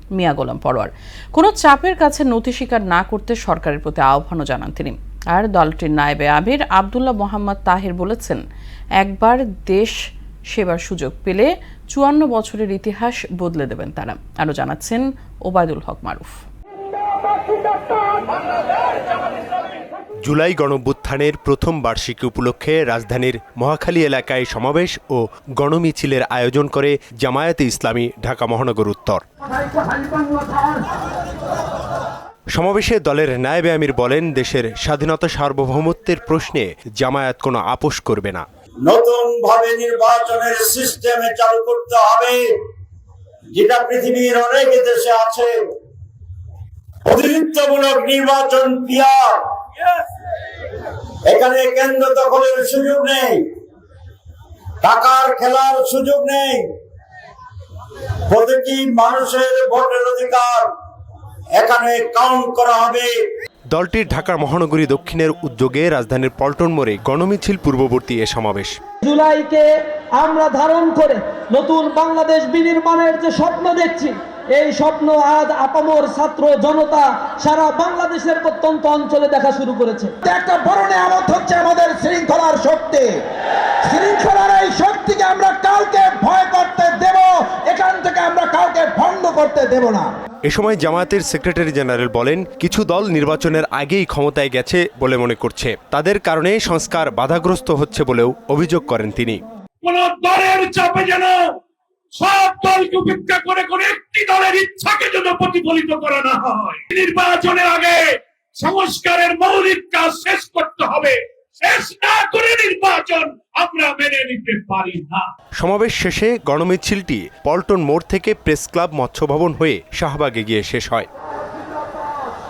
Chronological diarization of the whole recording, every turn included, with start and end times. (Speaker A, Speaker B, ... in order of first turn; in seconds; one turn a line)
Speaker A: 0.2-8.4
Speaker A: 9.0-9.9
Speaker A: 10.5-16.3
Speaker B: 20.2-29.2
Speaker B: 32.5-38.4
Speaker C: 38.9-42.4
Speaker C: 43.5-45.5
Speaker C: 47.0-49.3
Speaker C: 51.3-53.5
Speaker C: 54.8-56.6
Speaker C: 58.3-60.7
Speaker C: 61.5-63.1
Speaker B: 63.7-68.8
Speaker D: 69.0-80.1
Speaker E: 80.2-83.1
Speaker E: 83.9-90.1
Speaker B: 90.5-99.4
Speaker F: 99.8-101.4
Speaker F: 102.2-115.3
Speaker B: 115.6-121.1